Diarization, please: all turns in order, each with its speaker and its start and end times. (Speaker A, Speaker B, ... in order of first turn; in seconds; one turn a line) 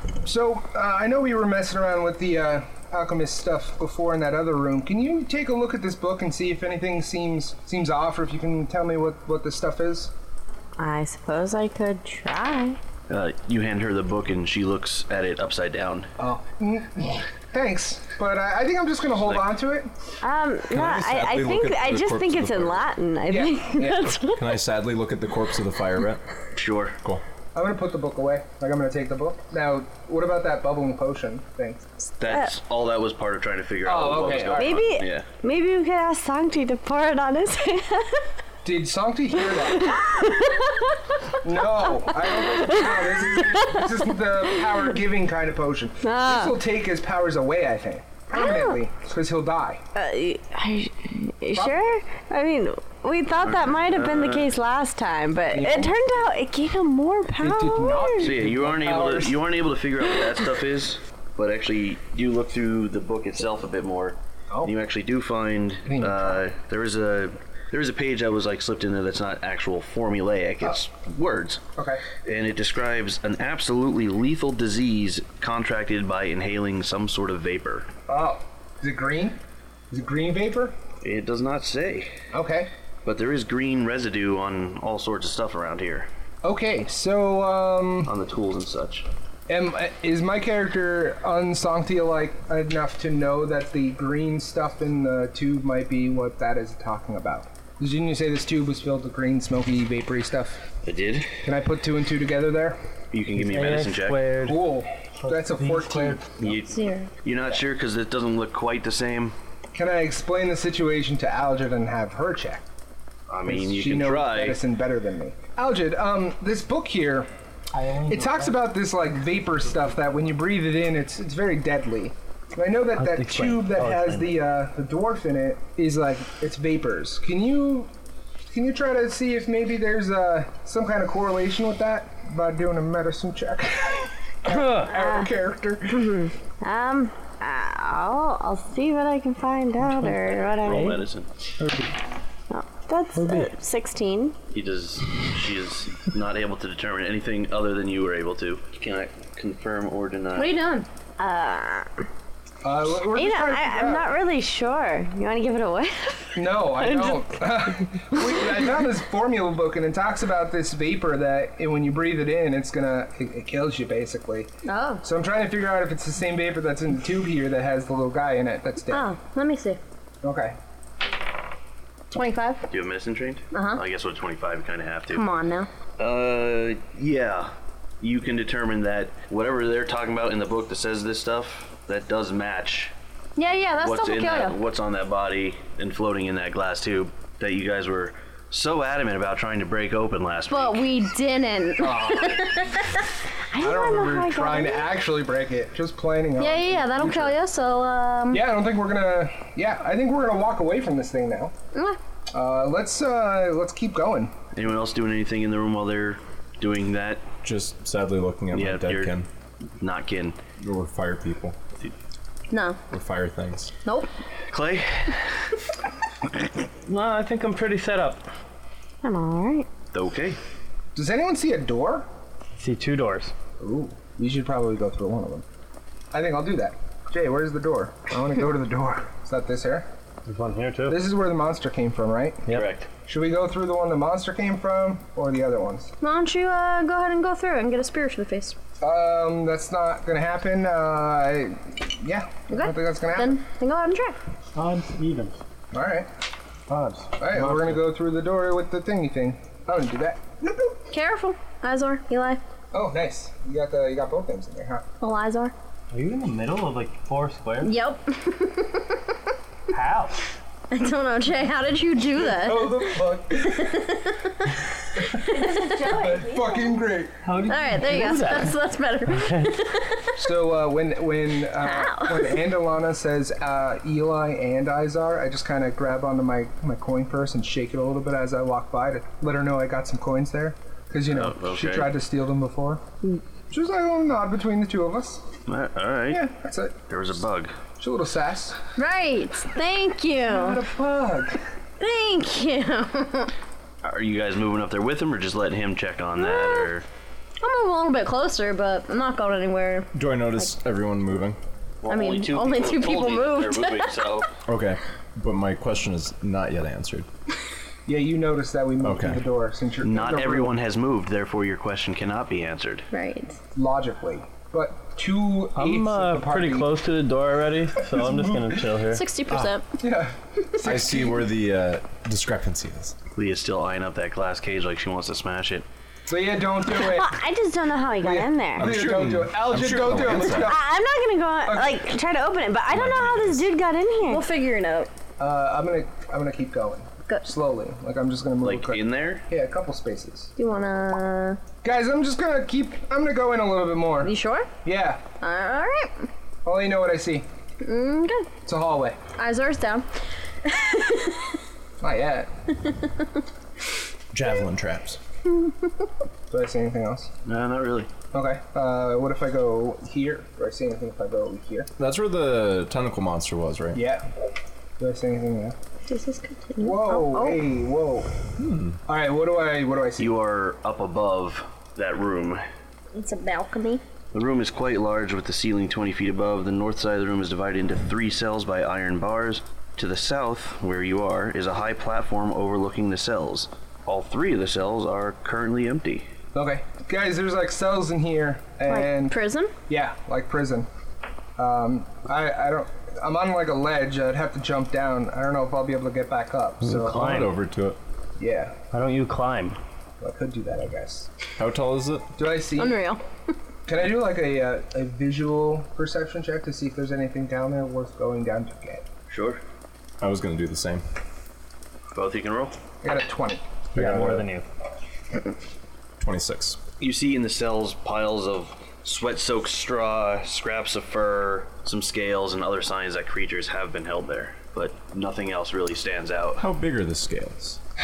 Speaker A: 0.2-10.1
Speaker B: 10.8-12.8
Speaker C: 13.1-16.1
Speaker A: 16.2-19.9
Speaker C: 19.2-19.5
Speaker B: 20.2-24.5
Speaker D: 20.7-22.9
Speaker A: 23.3-24.2
Speaker D: 24.4-26.2
Speaker C: 26.6-27.0
Speaker A: 27.5-31.9
Speaker C: 32.2-35.3
Speaker A: 33.8-34.9
Speaker B: 34.5-38.2
Speaker A: 38.6-40.0
Speaker B: 39.5-41.4
Speaker A: 41.4-49.8
Speaker B: 42.0-44.8
Speaker B: 46.0-46.6
Speaker B: 48.3-48.8
Speaker B: 50.0-58.4
Speaker A: 51.5-51.9
Speaker C: 53.4-54.5
Speaker A: 55.5-56.3
Speaker A: 57.4-59.4
Speaker C: 58.2-71.6
Speaker A: 65.9-66.4
Speaker A: 71.8-72.0
Speaker C: 72.2-77.9
Speaker A: 78.1-79.4
Speaker A: 79.9-80.8
Speaker C: 81.0-82.2
Speaker A: 82.3-82.7
Speaker C: 83.0-86.1
Speaker A: 86.4-88.1
Speaker C: 88.0-89.1
Speaker A: 89.5-100.7
Speaker C: 100.8-101.4
Speaker A: 101.4-102.8
Speaker C: 103.1-104.2
Speaker E: 103.3-106.3
Speaker A: 104.4-106.5
Speaker C: 106.4-109.3
Speaker F: 106.7-107.1
Speaker A: 109.7-112.6
Speaker C: 113.3-114.6
Speaker A: 113.5-117.3
Speaker E: 117.8-118.5
Speaker A: 118.1-127.9
Speaker E: 123.0-124.5
Speaker A: 128.5-136.3
Speaker E: 134.5-134.9
Speaker B: 134.9-135.3
Speaker B: 135.9-141.0
Speaker E: 139.8-141.0
Speaker C: 140.5-141.3
Speaker E: 141.6-141.9
Speaker B: 142.5-144.4
Speaker E: 143.2-143.5
Speaker C: 144.5-150.6
Speaker F: 150.3-150.9
Speaker B: 151.2-151.9
Speaker A: 152.6-154.2
Speaker B: 153.1-157.5
Speaker A: 156.3-164.5
Speaker F: 164.7-165.0
Speaker A: 165.0-169.1
Speaker F: 168.9-169.8
Speaker A: 170.2-170.6
Speaker F: 172.1-172.6
Speaker C: 172.7-175.3
Speaker F: 173.5-173.8
Speaker F: 175.1-175.7
Speaker C: 176.0-182.9
Speaker F: 183.4-184.6
Speaker C: 183.8-190.8
Speaker F: 190.5-193.0
Speaker A: 191.8-192.6
Speaker B: 193.5-194.9
Speaker A: 193.6-197.3
Speaker F: 196.4-198.5
Speaker A: 198.3-201.5
Speaker F: 201.7-202.0
Speaker A: 202.3-204.3
Speaker C: 204.5-207.2
Speaker D: 207.4-209.3
Speaker C: 208.5-209.2
Speaker C: 209.8-210.4
Speaker D: 210.6-211.6
Speaker F: 212.5-212.8
Speaker D: 212.9-213.7
Speaker F: 213.8-214.1
Speaker C: 214.5-215.5
Speaker E: 216.9-218.2
Speaker B: 219.0-219.7
Speaker C: 219.9-220.4
Speaker A: 220.9-222.1
Speaker E: 222.6-223.3
Speaker A: 223.6-225.4
Speaker A: 226.1-229.9
Speaker E: 230.3-231.0
Speaker A: 230.9-232.4
Speaker E: 232.5-232.7
Speaker C: 232.5-232.9
Speaker A: 233.1-235.9
Speaker F: 236.0-238.6
Speaker A: 238.8-243.4
Speaker F: 242.5-244.2
Speaker E: 244.6-245.4
Speaker A: 245.7-246.1
Speaker E: 246.7-247.9
Speaker A: 247.2-250.8
Speaker F: 250.9-252.4
Speaker A: 252.7-254.8
Speaker F: 255.0-255.5
Speaker E: 255.9-257.8
Speaker F: 257.6-259.0
Speaker E: 259.7-260.3
Speaker F: 260.7-262.9
Speaker A: 262.3-263.9
Speaker F: 263.6-264.4
Speaker F: 265.2-266.0
Speaker B: 265.6-266.7
Speaker A: 265.8-267.2
Speaker E: 267.2-269.6
Speaker F: 267.5-270.2
Speaker A: 270.2-282.8
Speaker F: 271.6-272.4
Speaker C: 281.1-281.9
Speaker A: 283.5-285.2
Speaker C: 285.5-286.2
Speaker A: 286.1-286.8
Speaker C: 286.9-287.6
Speaker A: 287.8-288.6
Speaker F: 288.8-290.6
Speaker A: 290.3-291.4
Speaker F: 291.8-293.3
Speaker C: 293.8-296.9
Speaker F: 296.2-296.7
Speaker F: 297.4-299.9
Speaker D: 299.9-301.4
Speaker C: 301.8-304.3
Speaker F: 301.9-304.1
Speaker D: 304.5-307.1
Speaker A: 307.9-310.6
Speaker D: 308.8-309.2
Speaker C: 309.8-312.9
Speaker F: 312.9-313.4
Speaker A: 313.6-316.7
Speaker E: 315.6-319.0
Speaker A: 317.9-318.6
Speaker F: 318.9-319.7
Speaker A: 319.8-321.2
Speaker D: 320.6-323.0
Speaker C: 323.1-325.7
Speaker A: 326.1-327.1
Speaker B: 326.7-328.9
Speaker A: 328.0-330.7
Speaker D: 328.6-330.6
Speaker B: 330.1-334.3
Speaker A: 331.4-331.8
Speaker D: 332.7-333.5
Speaker F: 334.1-334.9
Speaker A: 335.2-340.3
Speaker C: 338.4-339.2
Speaker F: 340.4-341.4
Speaker A: 341.6-345.0
Speaker F: 344.0-344.5
Speaker F: 345.2-346.1
Speaker A: 346.4-347.3
Speaker F: 347.6-348.3
Speaker A: 348.4-349.0
Speaker F: 349.2-349.9
Speaker F: 350.4-351.4
Speaker A: 351.8-352.3
Speaker D: 354.1-355.0
Speaker A: 356.3-357.1
Speaker C: 357.2-357.9
Speaker A: 358.1-361.7
Speaker D: 361.8-363.9
Speaker A: 363.7-364.1
Speaker A: 364.8-365.6
Speaker F: 365.9-367.4
Speaker A: 366.6-368.1
Speaker D: 368.4-368.8
Speaker A: 368.9-370.1
Speaker C: 370.0-372.4
Speaker F: 372.9-373.8
Speaker C: 374.1-386.1
Speaker A: 386.3-390.7
Speaker F: 388.7-389.5
Speaker A: 391.4-397.2
Speaker E: 396.6-397.3
Speaker D: 396.7-397.8
Speaker A: 398.2-398.6
Speaker E: 398.7-399.6
Speaker A: 400.0-401.1
Speaker D: 401.4-402.1
Speaker A: 402.2-402.8
Speaker F: 402.6-403.0
Speaker A: 403.7-408.9
Speaker C: 409.1-409.4
Speaker D: 410.0-410.8
Speaker C: 411.9-412.6
Speaker A: 412.8-413.4
Speaker E: 413.7-414.4
Speaker D: 413.8-414.2
Speaker D: 416.0-416.6
Speaker C: 416.8-426.5
Speaker D: 426.4-427.6